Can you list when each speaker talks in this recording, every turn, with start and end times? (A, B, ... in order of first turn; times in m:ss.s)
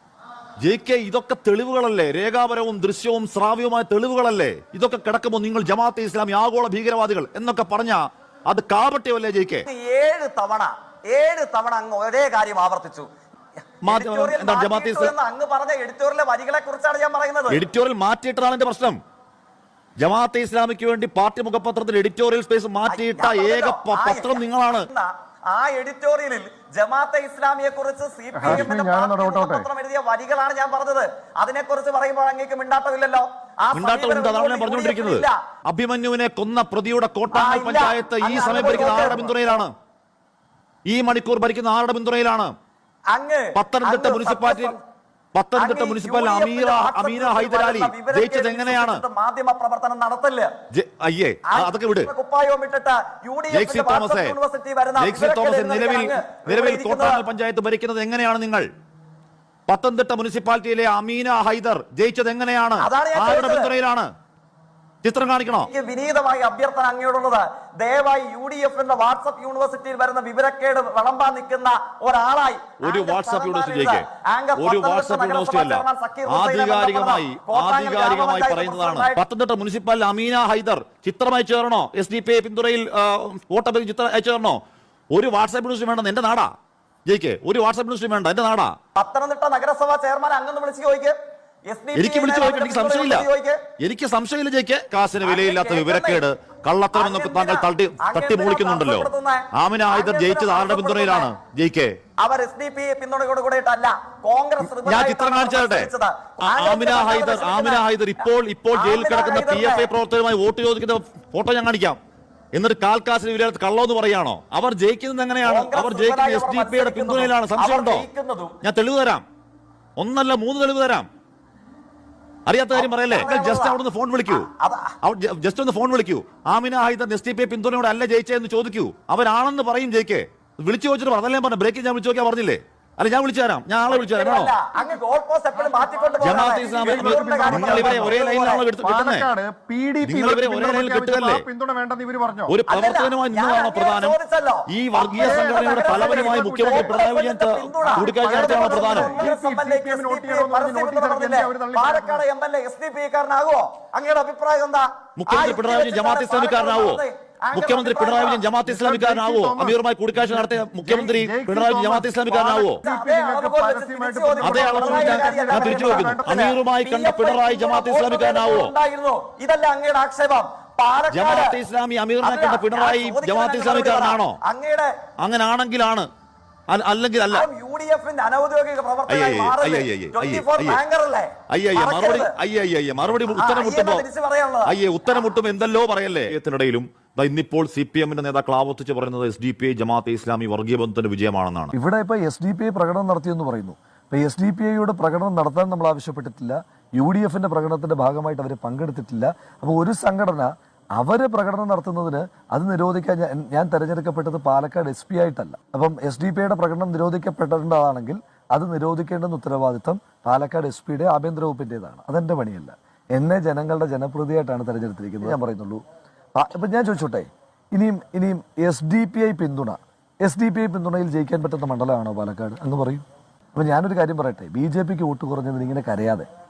0:00.6-0:09.6 A
0:09.7-0:13.1 B
0:13.8-0:15.1 A
0:13.8-0:17.6 B
0:17.5-0:19.0 A
0:20.0-0:24.9 A
0:22.9-0:35.4 B
0:28.3-0:29.7 C
0:33.7-0:39.7 A
0:37.3-0:39.5 B
0:40.9-0:42.5 A
0:43.1-0:44.8 B
0:43.6-0:44.8 A
0:45.4-0:49.0 A
0:45.6-0:50.5 B
0:50.7-0:52.1 A
0:51.5-0:57.2 B
0:53.5-0:54.4 A
0:55.0-0:58.7 A
0:59.7-1:04.1 A
1:02.8-1:03.7 B
1:05.0-1:05.7 A
1:05.7-1:19.2 B
1:12.8-1:24.6 A
1:25.1-1:26.5 A
1:27.1-1:28.8 A
1:29.0-1:31.2 B
1:31.7-1:33.6 B
1:32.0-1:33.3 A
1:33.8-1:42.0 A
1:35.2-1:36.2 B
1:36.9-1:41.3 B
1:42.2-1:47.8 B
1:44.7-1:45.9 A
1:46.5-1:52.0 A
1:48.7-1:49.9 B
1:52.5-1:58.1 A
1:55.4-1:58.6 B
1:58.6-1:59.2 A
2:00.0-2:01.1 A
2:02.5-2:04.5 A
2:02.8-2:04.9 B
2:05.0-2:14.6 A
2:13.9-2:18.7 B
2:14.8-2:15.0 C
2:15.6-2:22.5 C
2:16.2-2:19.3 A
2:20.0-2:21.5 A
2:22.5-2:24.2 A
2:22.7-2:38.5 B
2:24.7-2:29.2 A
2:25.0-2:27.0 C
2:27.9-2:32.2 C
2:35.2-2:37.0 A
2:37.5-2:42.8 A
2:38.7-2:46.6 C
2:42.8-2:51.6 B
2:44.4-2:48.7 A
2:51.1-2:54.4 A
2:52.2-2:54.9 B
2:55.2-2:56.1 A
2:56.7-2:57.5 A
2:57.3-3:02.3 B
2:59.1-3:00.8 A
3:01.5-3:04.1 A
3:03.3-3:05.3 B
3:04.6-3:11.7 A
3:11.7-3:35.8 D
3:36.4-3:43.0 D
3:43.6-3:46.3 D